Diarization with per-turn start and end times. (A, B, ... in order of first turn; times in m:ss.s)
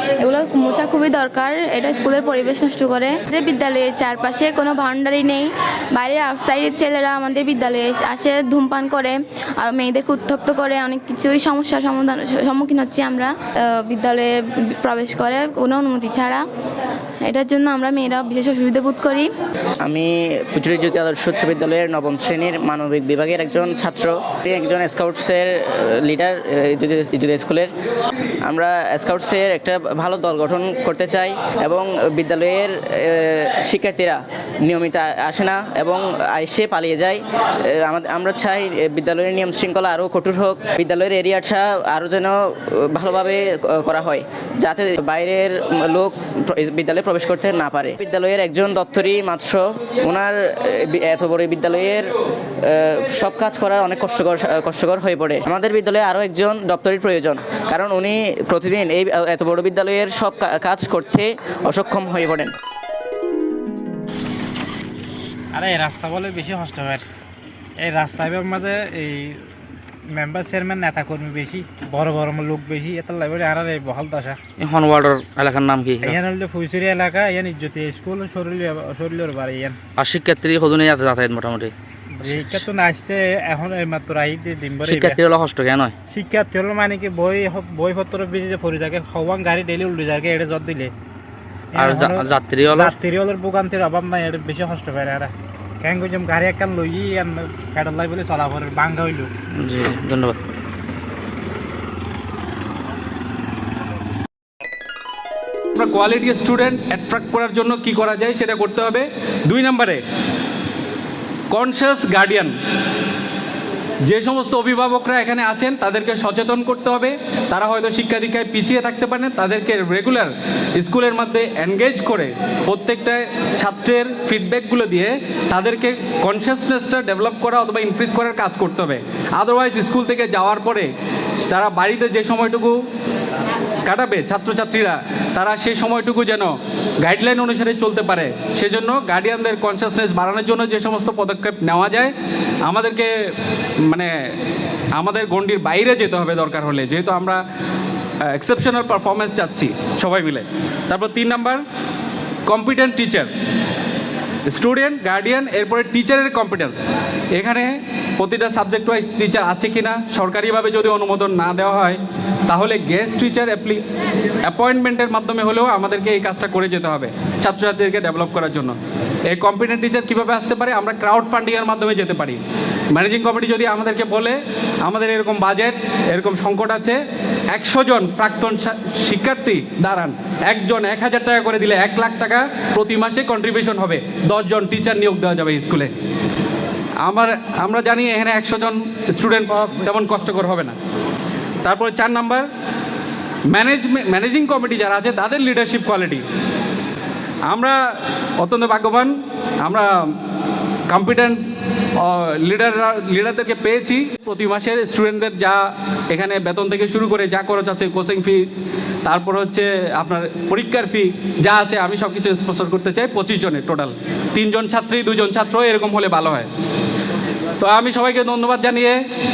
0:00.2-0:16.4 A
0:17.2-0:19.3 A
0:19.8-0:27.7 B
0:28.4-0:37.2 B
0:37.7-0:52.1 B
0:52.6-1:02.5 B
1:05.5-1:07.0 C
1:07.8-1:09.3 C
1:10.1-1:14.4 C
1:14.6-1:16.2 D
1:16.2-1:19.8 C
1:20.0-1:21.7 D
1:22.3-1:24.8 C
1:24.8-1:25.9 D
1:26.1-1:30.9 C
1:31.8-1:32.9 D
1:33.0-1:35.3 C
1:35.8-1:39.3 C
1:39.6-1:40.3 D
1:45.8-1:50.0 E
1:51.5-1:52.5 E
1:54.1-2:10.9 E
2:11.5-2:12.7 E
2:13.9-2:22.1 E
2:22.7-2:23.1 E
2:25.0-2:27.4 E
2:28.3-2:31.6 E
2:32.5-2:33.3 E
2:34.5-2:36.8 E
2:37.4-2:43.8 E
2:44.5-2:48.8 E
2:49.3-2:52.4 E
2:52.9-2:57.0 E
2:57.5-3:05.9 E
3:07.0-3:10.8 E
3:11.6-3:12.4 E
3:13.5-3:16.2 E
3:17.5-3:17.8 E
3:18.4-3:19.1 E
3:20.9-3:21.4 E
3:22.0-3:25.6 E
3:26.1-3:28.4 E
3:29.0-3:36.5 E
3:37.6-3:39.0 E